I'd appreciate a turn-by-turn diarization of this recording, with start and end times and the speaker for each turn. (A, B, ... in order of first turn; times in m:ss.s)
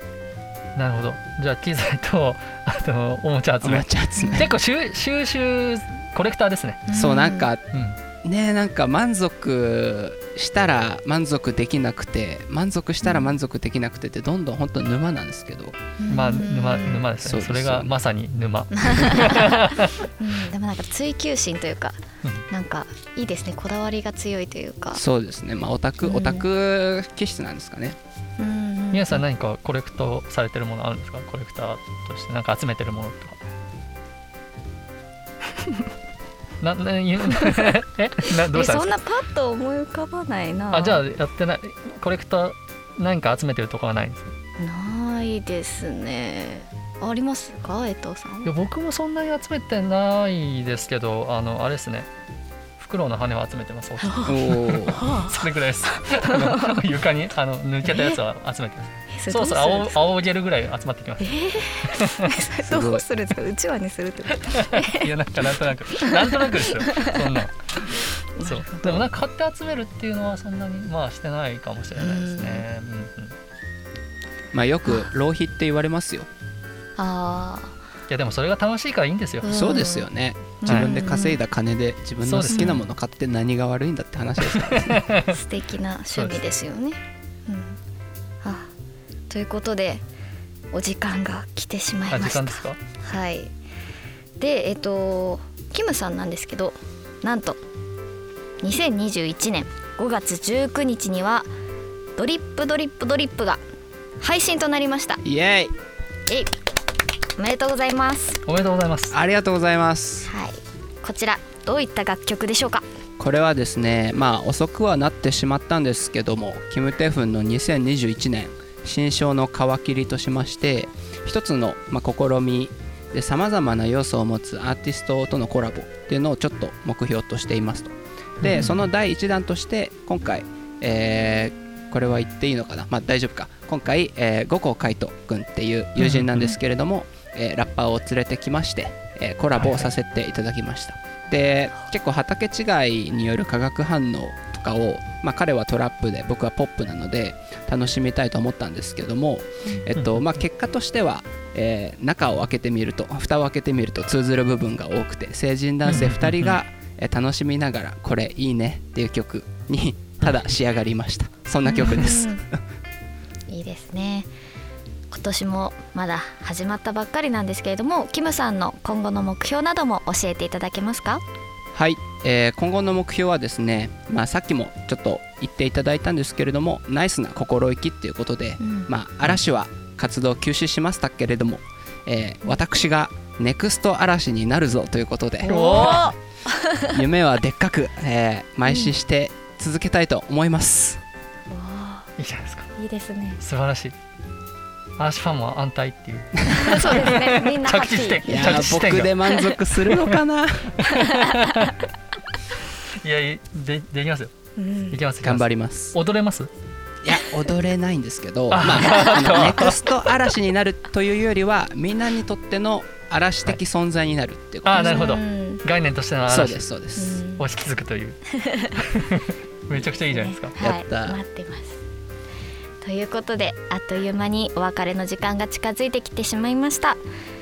0:00.8-0:06.8 A
0:03.6-0:04.5 B
0:04.2-0:04.5 C
0:06.9-0:07.5 C
0:06.9-0:07.7 B
0:07.7-0:08.0 A
0:08.2-0:15.8 B
0:13.0-0:13.3 C
0:16.0-0:17.0 C
0:16.1-0:20.0 A
0:17.2-0:17.9 B
0:18.8-0:19.6 C
0:20.2-0:25.0 C
0:24.9-0:28.0 B
0:26.0-0:26.5 C
0:28.4-0:29.2 C
0:28.9-0:33.4 A
0:36.6-0:38.9 A
0:37.4-0:37.7 C
0:38.5-0:41.0 C
0:40.7-0:44.3 A
0:44.6-0:48.5 C
0:48.4-0:52.1 A
0:52.8-1:01.3 A
0:54.0-0:56.8 C
0:54.3-0:55.0 B
0:57.9-0:58.2 C
0:59.1-1:00.0 C
1:01.2-1:05.1 C
1:01.9-1:02.3 A
1:02.6-1:03.0 B
1:04.3-1:13.4 A
1:05.9-1:07.2 C
1:08.4-1:09.1 C
1:12.0-1:12.7 C
1:14.5-1:16.3 B
1:17.0-1:17.8 C
1:18.1-1:19.5 A
1:19.4-1:20.1 C
1:19.4-1:25.1 B
1:20.6-1:21.4 C
1:22.2-1:22.8 A
1:22.5-1:22.8 C
1:24.5-1:25.3 A
1:25.3-1:27.8 C
1:26.1-1:26.4 A
1:28.4-1:28.7 C
1:29.3-1:30.0 C
1:30.7-1:33.5 C
1:32.1-1:32.8 A
1:34.4-1:37.6 C
1:38.6-1:41.5 C
1:42.2-1:43.6 C
1:44.2-1:45.2 C
1:45.2-1:45.7 B
1:47.4-1:48.4 C
1:48.5-1:49.2 A
1:49.1-1:50.3 B
1:50.3-1:52.8 C
1:53.2-2:42.4 B
2:08.4-2:08.9 A
2:16.0-2:16.5 A
2:19.6-2:19.9 A
2:30.0-2:30.2 A
2:35.8-2:36.6 A
2:41.6-2:42.4 C
2:43.5-2:44.3 C
2:45.1-2:51.2 C
2:51.7-3:06.1 B
2:58.6-2:58.9 C
3:05.4-3:07.0 C
3:05.4-3:06.2 A
3:06.9-3:11.0 B
3:08.7-3:08.9 C
3:11.5-3:12.1 C
3:12.2-3:12.7 A
3:12.8-3:13.4 C
3:13.4-3:14.0 A
3:15.0-3:20.2 A
3:16.5-3:18.4 C
3:18.2-3:20.8 B
3:20.8-3:21.9 A
3:20.9-3:21.5 C
3:23.0-3:24.3 A
3:24.6-3:25.0 C
3:24.9-3:26.5 A
3:25.2-3:26.0 B
3:27.0-3:35.0 B
3:28.5-3:29.8 A
3:34.7-3:36.7 A
3:34.7-3:35.6 C
3:36.3-3:37.2 B
3:37.0-3:37.4 C
3:37.4-3:40.6 A
3:39.7-3:41.8 C
3:40.6-3:41.2 B
3:42.8-3:47.0 C